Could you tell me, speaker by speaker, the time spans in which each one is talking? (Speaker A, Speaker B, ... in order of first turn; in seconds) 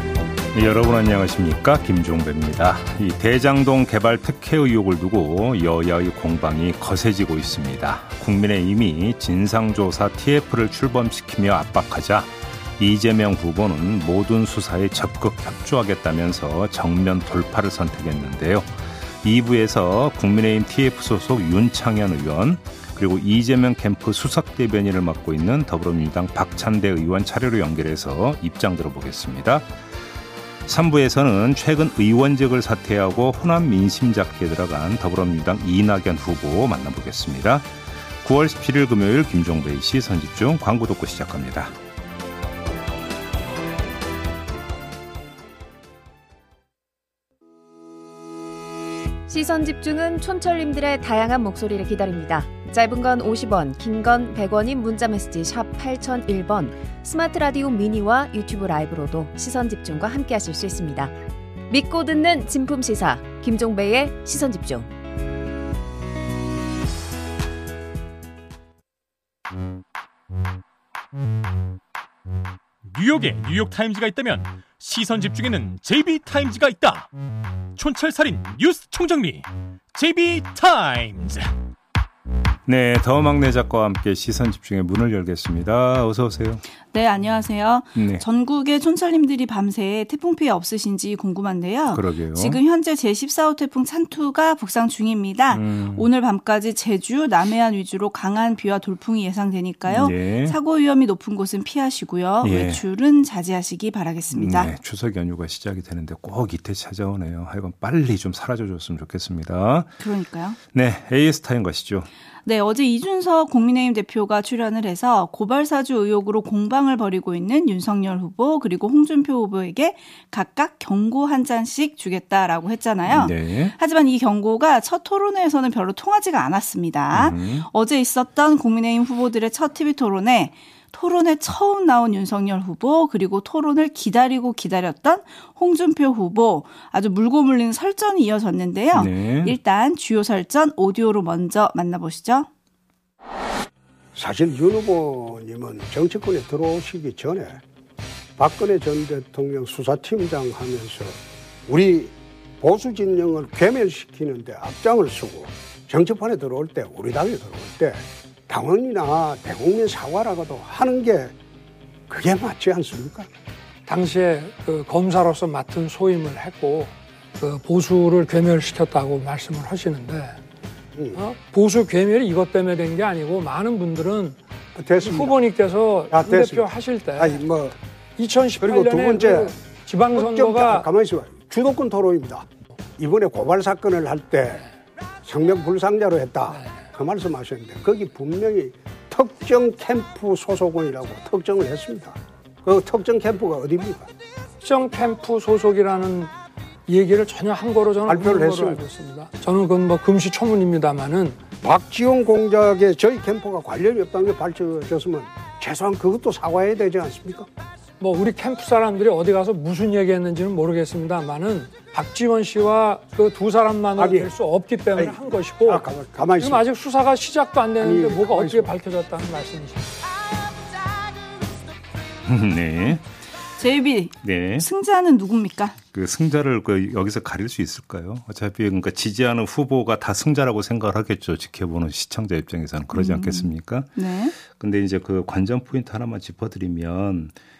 Speaker A: 0.5-29.7, 30.6-41.7, 82.7-86.6, 87.9-88.2, 91.9-92.6, 95.5-96.1, 99.9-100.6, 102.4-102.8, 104.3-110.0, 110.7-112.1, 123.1-123.7, 127.1-127.7, 138.9-139.6, 222.2-223.0, 224.2-224.7, 225.9-237.3
Speaker B: 49.3-61.1, 61.7-64.9
Speaker C: 72.8-77.1, 77.7-81.5
Speaker D: 86.9-104.7, 110.0-110.6, 112.4-142.5, 223.6-225.8, 232.9-234.3
Speaker E: 144.1-147.6, 148.4-151.2, 151.7-161.3, 162.1-163.3, 174.8-175.3, 176.1-177.7, 178.6-179.5, 180.1-182.4, 183.0-184.7, 185.2-194.1, 198.1-198.8, 201.6-207.5, 213.9-214.3, 214.9-216.7, 217.8-218.7
Speaker F: 163.9-170.4, 171.1-174.4, 175.0-177.4, 178.2-180.9, 186.5-186.8, 194.6-196.3, 196.9-201.4, 208.0-219.9